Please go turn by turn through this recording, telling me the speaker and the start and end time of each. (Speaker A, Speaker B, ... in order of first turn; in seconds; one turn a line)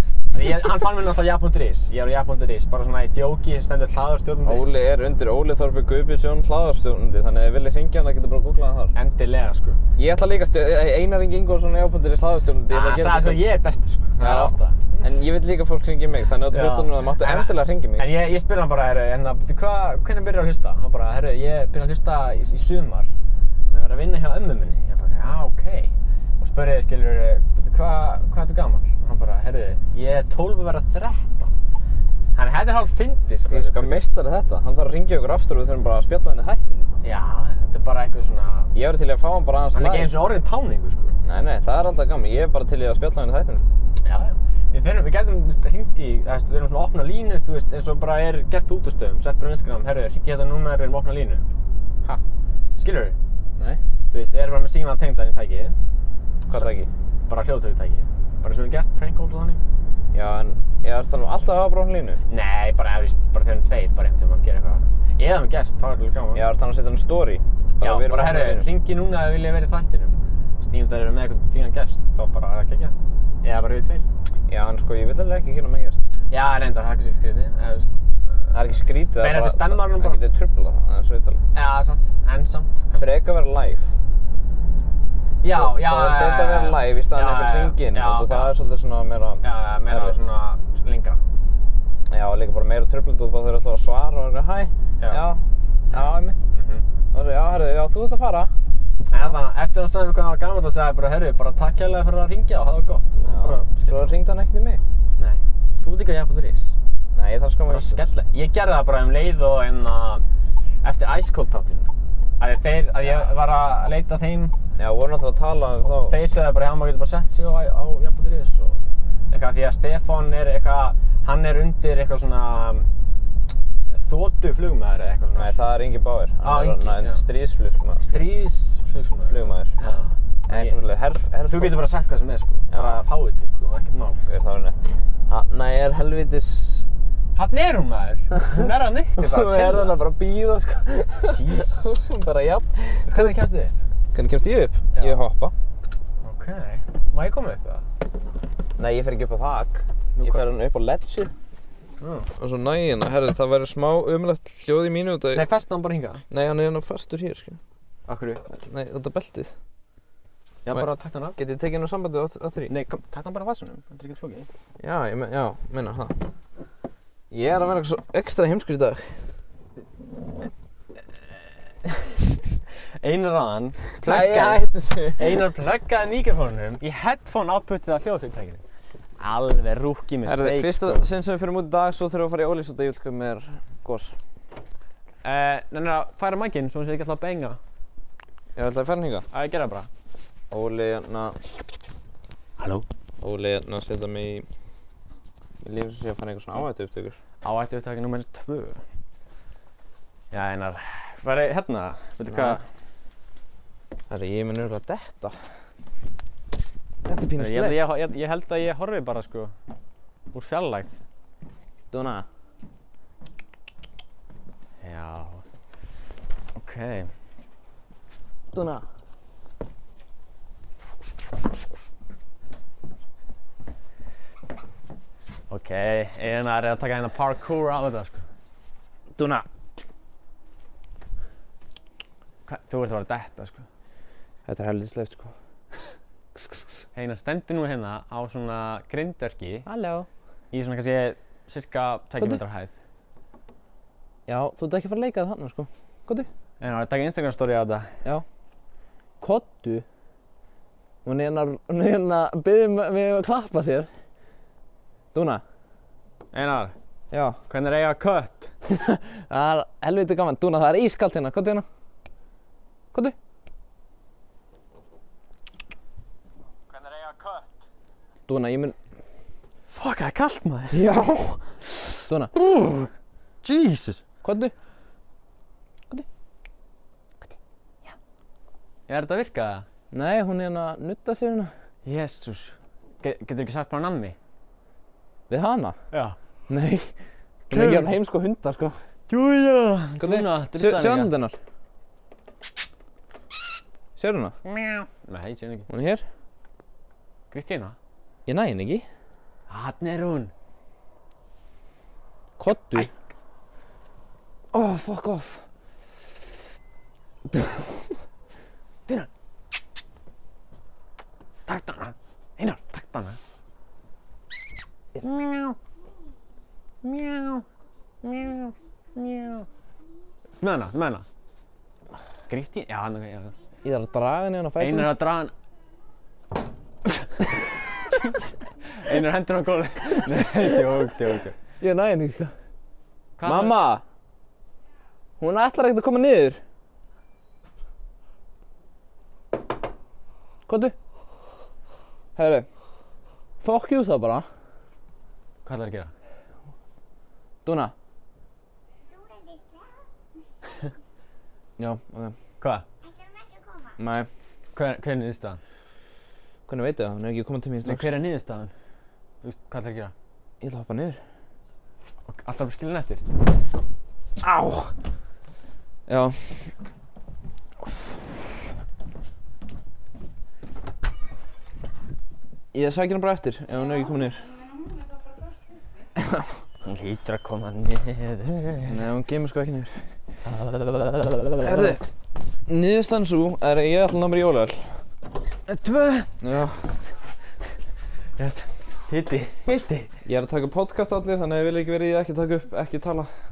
Speaker A: 0.3-4.7
Speaker B: 4.4-8.9
Speaker A: 8.9-9.8
Speaker B: 9.9-13.4
Speaker A: 12.7-15.1
Speaker B: 14.2-18.1
Speaker A: 16.5-23.1
Speaker A: 23.7-31.5
Speaker A: 32.3-34.1
Speaker B: 33.5-37.0
Speaker A: 37.0-38.7
Speaker B: 38.7-40.2
Speaker A: 39.7-41.2
Speaker B: 41.2-43.6
Speaker A: 44.0-51.4
Speaker A: 52.8-53.2
Speaker B: 53.5-53.8
Speaker A: 54.1-55.8
Speaker B: 56.5-56.9
Speaker A: 57.3-59.6
Speaker B: 60.1-62.2
Speaker A: 62.3-66.5
Speaker B: 66.3-68.7
Speaker A: 67.8-74.0
Speaker B: 74.5-76.0
Speaker A: 76.3-78.5
Speaker B: 78.5-81.4
Speaker A: 79.2-80.2
Speaker A: 81.5-83.1
Speaker B: 83.0-84.0
Speaker A: 85.4-88.5
Speaker B: 85.5-90.2
Speaker A: 89.4-91.2
Speaker B: 92.1-96.4
Speaker A: 96.5-96.8
Speaker B: 97.1-98.5
Speaker A: 99.1-104.1
Speaker B: 103.2-104.8
Speaker A: 105.2-106.7
Speaker B: 107.1-108.0
Speaker A: 107.7-110.2
Speaker A: 110.8-111.9
Speaker A: 112.4-114.5
Speaker B: 114.8-116.2
Speaker A: 115.8-122.9
Speaker A: 123.9-125.7
Speaker B: 125.3-128.2
Speaker A: 126.4-127.2
Speaker A: 128.0-130.8
Speaker B: 129.2-129.7
Speaker B: 130.5-131.8
Speaker A: 131.5-134.2
Speaker B: 132.7-133.0
Speaker B: 134.2-136.8
Speaker A: 137.3-139.9
Speaker B: 139.1-143.3
Speaker A: 141.3-142.1
Speaker A: 143.0-143.7
Speaker B: 144.1-145.5
Speaker A: 144.9-145.2
Speaker A: 146.2-147.9
Speaker B: 148.8-151.3
Speaker A: 150.2-150.4
Speaker A: 152.0-152.3
Speaker B: 152.4-155.4
Speaker A: 155.3-156.2
Speaker B: 156.3-157.6
Speaker A: 158.1-158.5
Speaker B: 158.5-159.5
Speaker A: 160.6-161.4
Speaker B: 160.7-162.7
Speaker A: 162.7-164.5
Speaker B: 164.8-166.2
Speaker B: 167.3-169.1
Speaker A: 171.8-172.1
Speaker A: 173.0-178.6
Speaker B: 174.0-175.4
Speaker A: 179.2-181.0
Speaker B: 180.2-184.2
Speaker A: 185.2-187.6
Speaker B: 188.5-189.2
Speaker A: 189.3-189.9
Speaker B: 190.5-191.4
Speaker A: 192.6-192.8
Speaker B: 193.2-194.5
Speaker B: 195.6-197.2
Speaker A: 197.4-198.8
Speaker A: 200.3-202.6
Speaker B: 202.3-202.6
Speaker B: 204.1-205.4
Speaker B: 207.0-207.8
Speaker A: 207.4-209.5
Speaker A: 210.3-210.9
Speaker B: 211.9-212.2
Speaker A: 214.8-215.4
Speaker A: 216.6-217.1
Speaker B: 218.5-218.8
Speaker A: 225.5-228.2
Speaker B: 229.1-229.4
Speaker A: 232.4-233.6
Speaker B: 234.4-235.3
Speaker B: 236.3-236.6
Speaker A: 236.9-239.7
Speaker B: 239.7-240.1
Speaker A: 240.5-242.7
Speaker B: 244.3-246.3
Speaker A: 246.6-247.9
Speaker B: 249.2-249.8
Speaker B: 251.0-253.9
Speaker B: 255.1-255.4
Speaker A: 256.3-256.7
Speaker B: 257.1-257.4
Speaker A: 257.5-258.5
Speaker B: 258.6-261.6
Speaker A: 266.7-267.5
Speaker B: 268.3-268.8
Speaker A: 269.7-270.9
Speaker B: 270.7-271.4
Speaker B: 272.0-272.3
Speaker A: 272.3-272.9
Speaker A: 273.4-274.0
Speaker B: 274.2-274.5
Speaker A: 278.9-279.6
Speaker B: 279.9-281.5
Speaker A: 281.8-284.1
Speaker B: 285.3-285.8
Speaker A: 285.9-286.2
Speaker B: 286.5-286.9
Speaker B: 287.5-288.8
Speaker A: 287.5-287.9
Speaker A: 289.1-291.1
Speaker B: 290.0-291.4
Speaker B: 294.0-294.4
Speaker A: 294.4-295.7
Speaker B: 295.7-296.0
Speaker A: 297.3-297.8
Speaker B: 298.2-298.9
Speaker A: 299.5-300.3
Speaker B: 302.4-302.9
Speaker A: 302.5-302.9
Speaker B: 304.5-305.4
Speaker A: 311.5-313.2
Speaker A: 315.0-315.6
Speaker A: 316.8-317.4
Speaker A: 318.0-319.4
Speaker A: 320.4-321.0
Speaker A: 322.3-323.3
Speaker B: 323.6-324.9
Speaker A: 324.6-325.3
Speaker A: 327.9-331.3
Speaker B: 331.6-332.3
Speaker A: 333.2-333.7
Speaker B: 333.2-333.8
Speaker B: 335.2-336.4
Speaker B: 340.5-340.7
Speaker B: 342.1-342.5
Speaker B: 343.4-344.3
Speaker A: 345.4-345.9
Speaker B: 347.4-347.7
Speaker B: 351.6-352.1
Speaker B: 353.8-354.1
Speaker A: 354.5-355.4
Speaker B: 356.5-357.9
Speaker A: 357.6-358.5
Speaker A: 359.2-359.9
Speaker B: 360.4-361.0
Speaker A: 362.1-363.0
Speaker B: 364.2-364.7
Speaker B: 365.9-366.2
Speaker B: 372.5-374.3
Speaker A: 376.6-378.8
Speaker B: 378.6-379.7
Speaker A: 380.5-381.7
Speaker B: 381.4-381.8
Speaker B: 382.5-384.8
Speaker A: 385.5-386.1
Speaker B: 386.2-386.6
Speaker A: 388.2-389.9
Speaker B: 390.0-393.1